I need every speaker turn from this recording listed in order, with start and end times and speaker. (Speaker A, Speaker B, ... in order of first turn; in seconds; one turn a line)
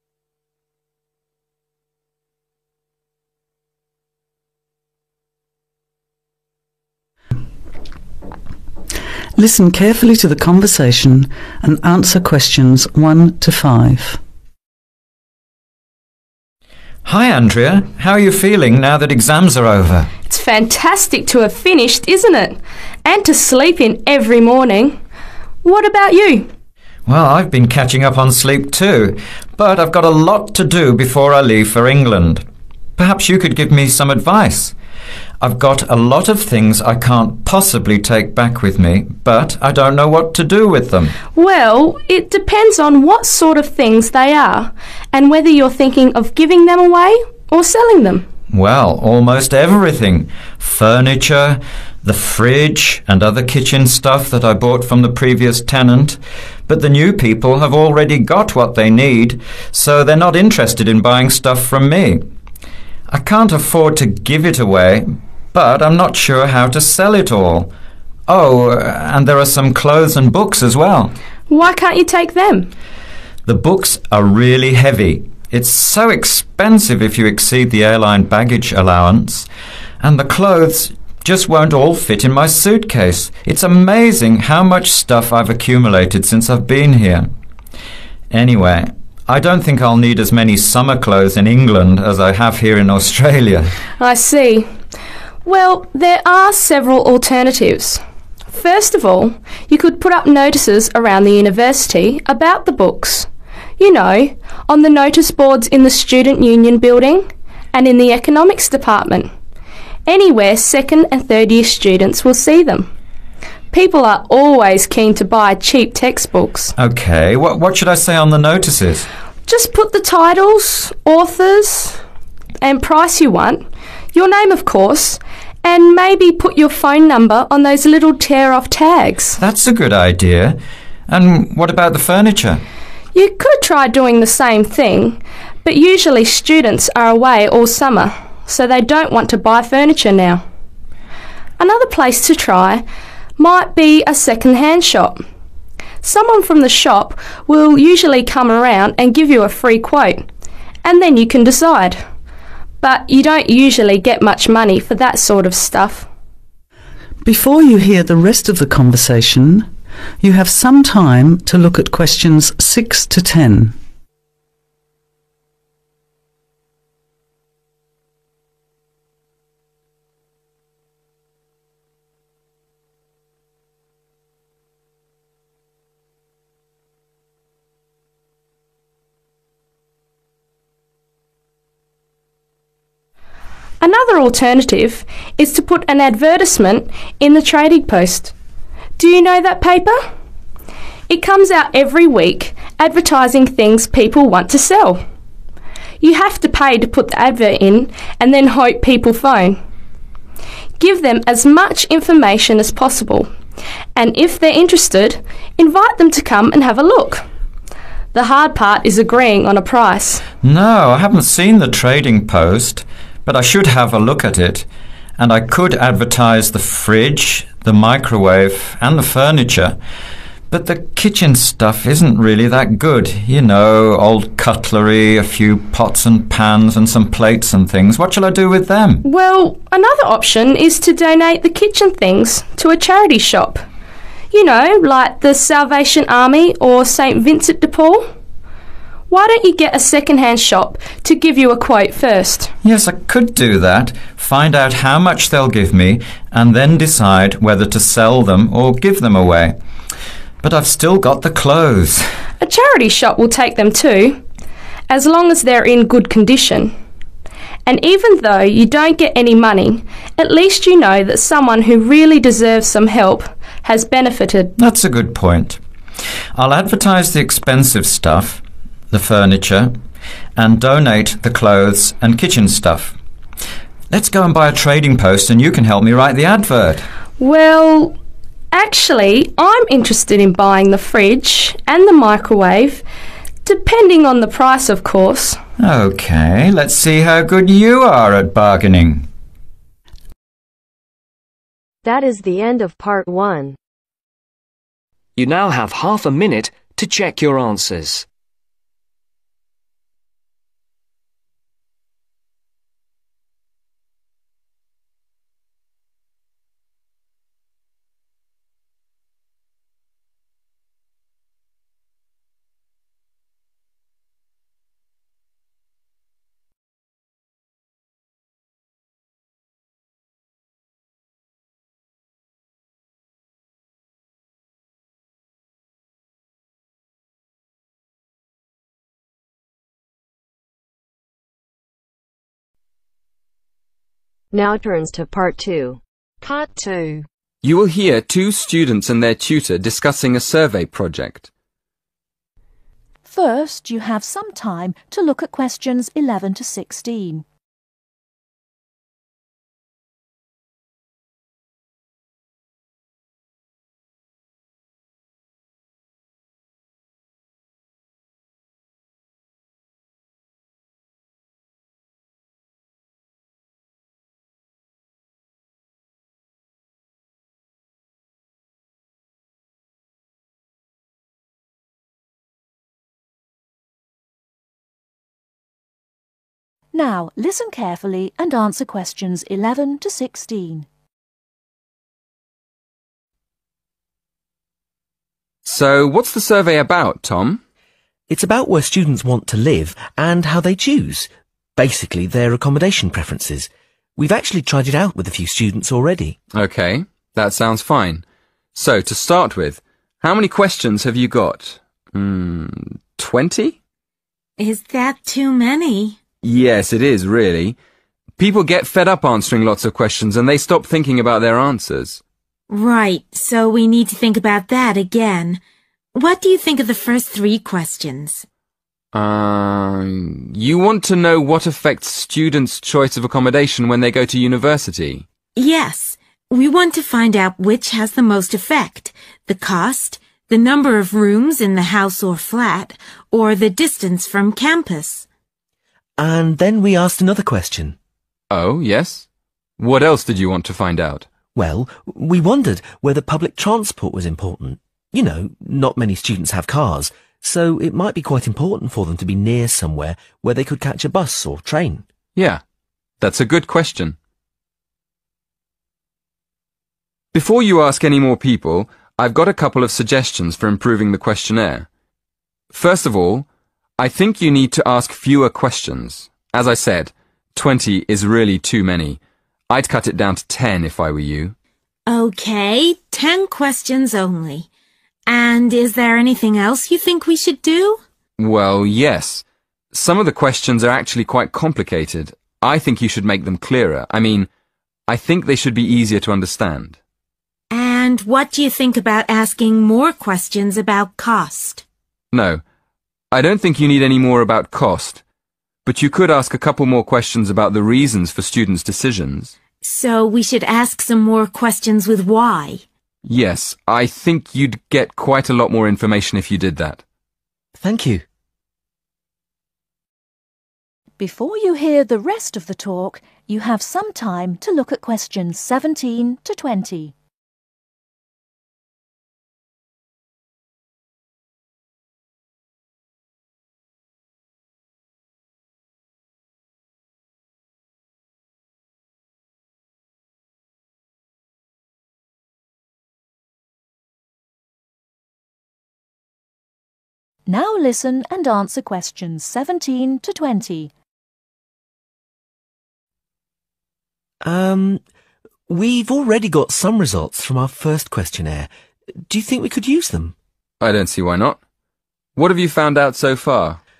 Speaker A: 9.3-14.2
Speaker B: 17.0-20.1
Speaker C: 20.3-24.9
Speaker C: 25.6-26.5
Speaker B: 27.1-32.4
Speaker B: 33.0-34.7
Speaker B: 35.4-41.1
Speaker C: 41.3-48.2
Speaker B: 48.5-62.2
Speaker B: 63.1-67.7
Speaker B: 68.3-71.1
Speaker C: 71.5-72.7
Speaker B: 73.5-79.5
Speaker B: 80.0-87.3
Speaker B: 88.3-93.7
Speaker C: 94.0-94.7
Speaker C: 95.4-98.0
Speaker C: 98.5-109.3
Speaker C: 110.1-112.9
Speaker C: 113.7-116.7
Speaker B: 116.8-119.1
Speaker C: 119.5-122.0
Speaker C: 122.6-129.3
Speaker B: 129.4-132.6
Speaker C: 133.1-140.4
Speaker C: 141.6-142.8
Speaker C: 143.4-145.2
Speaker C: 146.0-150.3
Speaker C: 150.8-152.0
Speaker C: 152.8-156.1
Speaker A: 157.2-163.8
Speaker C: 183.8-188.3
Speaker C: 189.0-190.0
Speaker C: 191.1-195.0
Speaker C: 196.0-199.6
Speaker C: 200.8-203.3
Speaker C: 203.9-207.2
Speaker C: 208.1-210.2
Speaker B: 210.4-214.7
Speaker B: 215.2-219.8
Speaker B: 220.5-229.0
Speaker C: 229.0-233.6
Speaker C: 234.3-238.1
Speaker C: 239.1-242.5
Speaker B: 242.6-249.6
Speaker B: 250.4-252.1
Speaker C: 252.4-254.2
Speaker C: 254.9-256.7
Speaker C: 257.6-264.5
Speaker B: 264.6-265.6
Speaker B: 266.3-269.7
Speaker B: 270.4-272.9
Speaker B: 273.9-276.8
Speaker C: 277.2-277.9
Speaker C: 278.5-282.8
Speaker C: 283.4-285.4
Speaker B: 285.6-289.1
Speaker D: 291.8-293.6
Speaker E: 295.1-298.1
Speaker D: 334.3-337.0
Speaker F: 337.4-341.3
Speaker G: 343.0-347.2
Speaker G: 376.7-380.7
Speaker F: 385.4-387.4
Speaker H: 388.1-396.2
Speaker F: 396.3-398.0
Speaker F: 398.5-403.6
Speaker I: 404.4-406.0
Speaker F: 406.2-407.6
Speaker F: 408.2-412.0
Speaker I: 412.5-415.4
Speaker I: 415.9-418.2
Speaker F: 418.9-425.0
Speaker I: 425.4-435.1
Speaker H: 436.0-437.8
Speaker F: 438.3-439.1
Speaker F: 439.6-441.1
Speaker H: 441.3-451.9
Speaker F: 452.1-452.4
Speaker F: 453.0-454.0
Speaker F: 457.1-461.7
Speaker F: 462.5-463.2
Speaker F: 463.8-471.3
Speaker I: 471.9-474.5
Speaker I: 475.1-477.8
Speaker F: 478.2-484.3
Speaker F: 484.9-486.8
Speaker I: 487.5-491.6
Speaker F: 492.1-492.4
Speaker F: 493.1-495.0
Speaker F: 495.6-499.3
Speaker I: 499.6-502.6
Speaker F: 503.0-506.8
Speaker H: 507.5-508.0
Speaker G: 511.0-516.9
Speaker G: 537.3-540.7
Speaker H: 544.2-544.8
Speaker H: 545.5-548.5
Speaker H: 549.1-550.1
Speaker F: 550.6-551.4
Speaker F: 552.1-553.6